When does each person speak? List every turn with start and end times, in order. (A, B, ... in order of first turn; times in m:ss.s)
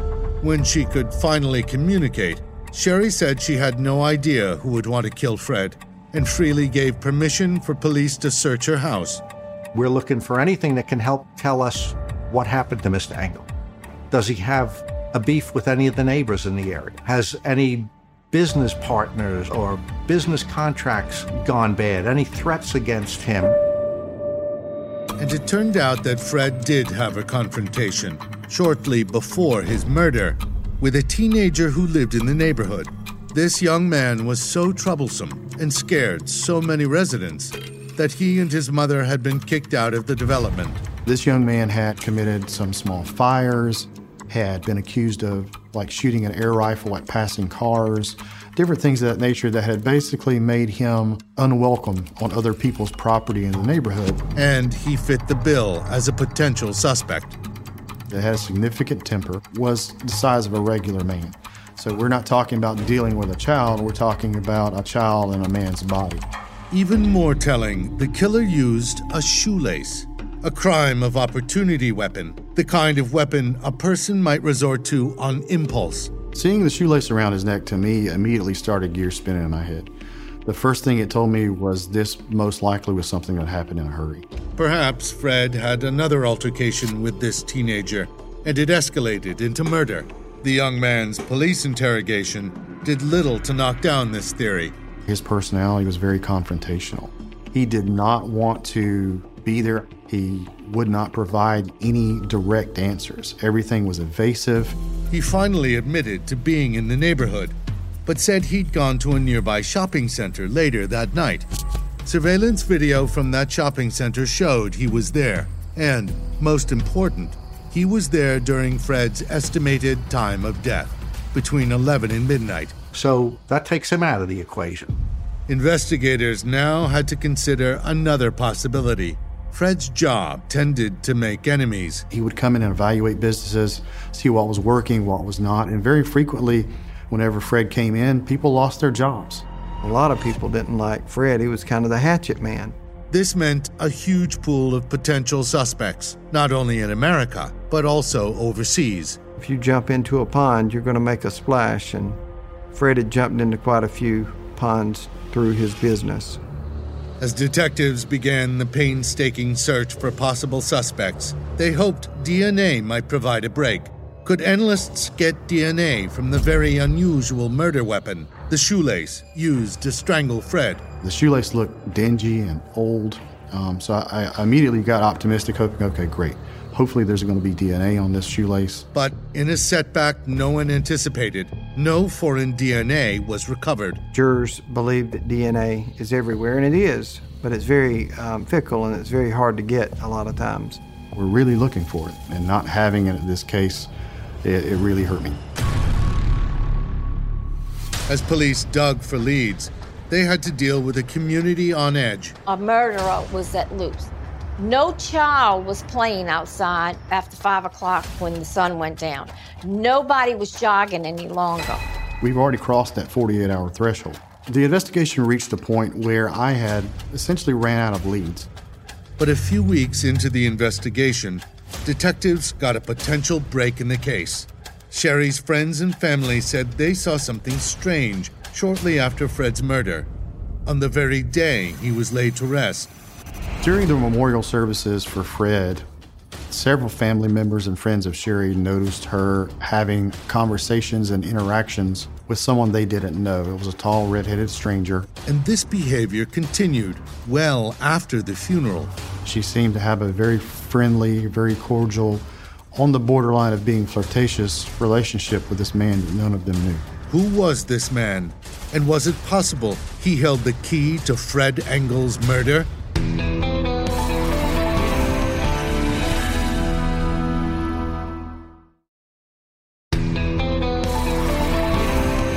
0:00.4-0:09.2 A
0:09.7-0:13.5 B
0:14.1-0:23.6 B
0:25.2-0:40.8 A
0:41.0-0:54.2 C
0:54.4-0:57.4 A
0:58.1-1:06.3 C
1:06.7-1:16.1 A
1:16.3-1:19.9 C
1:20.4-1:24.2 C
1:24.6-1:34.7 A
1:35.0-1:44.8 C
1:45.1-1:51.5 A
1:52.0-2:02.7 A
2:02.9-2:05.0 B
2:05.5-2:12.0 A
2:12.1-2:19.4 C
2:19.8-2:22.7 D
2:23.1-2:29.2 A
2:29.4-2:32.2 D
2:32.7-2:36.4 D
2:37.2-2:50.8 A
2:51.0-2:58.8 C
2:58.9-3:04.0 A
3:04.1-3:10.8 D
3:11.1-3:13.9 C
3:14.4-3:15.4 C
3:18.1-3:22.4 A
3:22.5-3:31.8 E
3:32.2-3:38.5 C
3:39.2-3:50.1 A
3:50.6-3:52.9 A
3:53.6-3:55.9 C
3:56.5-4:05.1 C
4:05.3-4:08.9 A
4:09.2-4:16.9 C
4:17.1-4:22.7 A